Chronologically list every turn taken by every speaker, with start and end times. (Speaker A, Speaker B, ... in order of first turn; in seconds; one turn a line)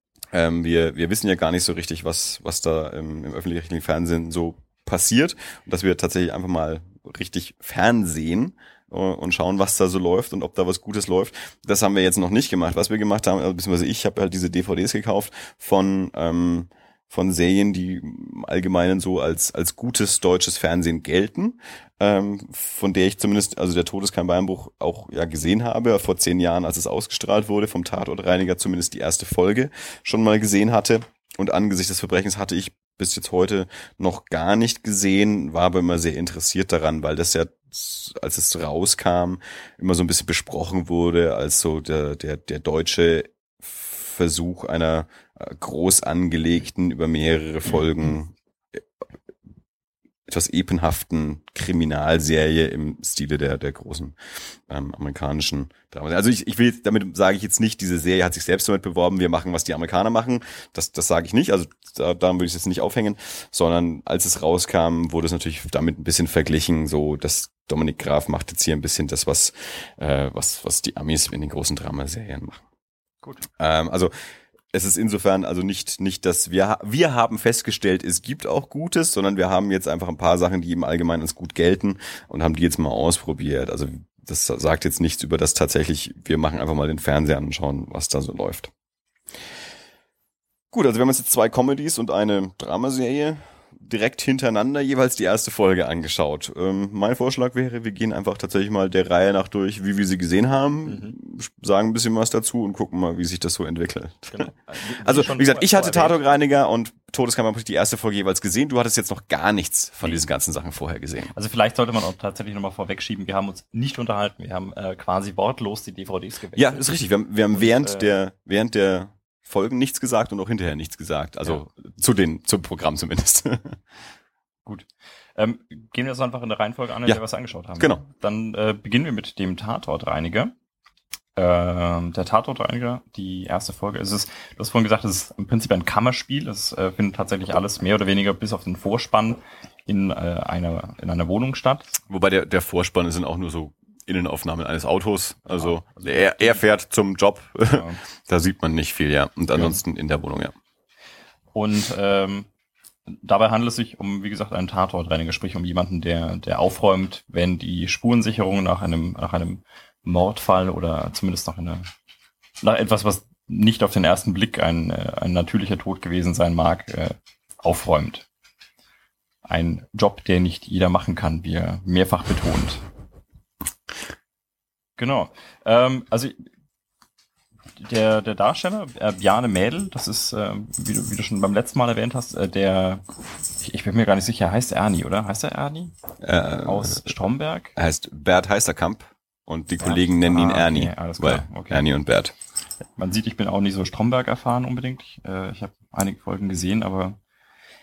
Speaker A: 0.3-48.8
Speaker A: 50.3-72.6
Speaker A: 73.5-74.1
Speaker A: 74.7-88.7
Speaker A: 90.7-111.3
Speaker B: 100.8-101.2
Speaker B: 104.3-106.3
Speaker B: 111.3-116.9
Speaker A: 116.5-123.8
Speaker B: 117.5-118.1
Speaker B: 124.6-130.5
Speaker B: 131.3-142.0
Speaker A: 142.1-150.5
Speaker B: 145.5-146.6
Speaker B: 147.7-148.0
Speaker B: 149.5-149.8
Speaker B: 151.5-152.5
Speaker B: 153.1-161.9
Speaker B: 162.6-168.3
Speaker B: 169.4-172.8
Speaker B: 175.0-176.4
Speaker B: 177.8-183.0
Speaker B: 183.6-185.9
Speaker A: 186.2-187.1
Speaker B: 186.6-187.7
Speaker A: 187.8-192.3
Speaker B: 189.8-191.8
Speaker B: 193.0-197.2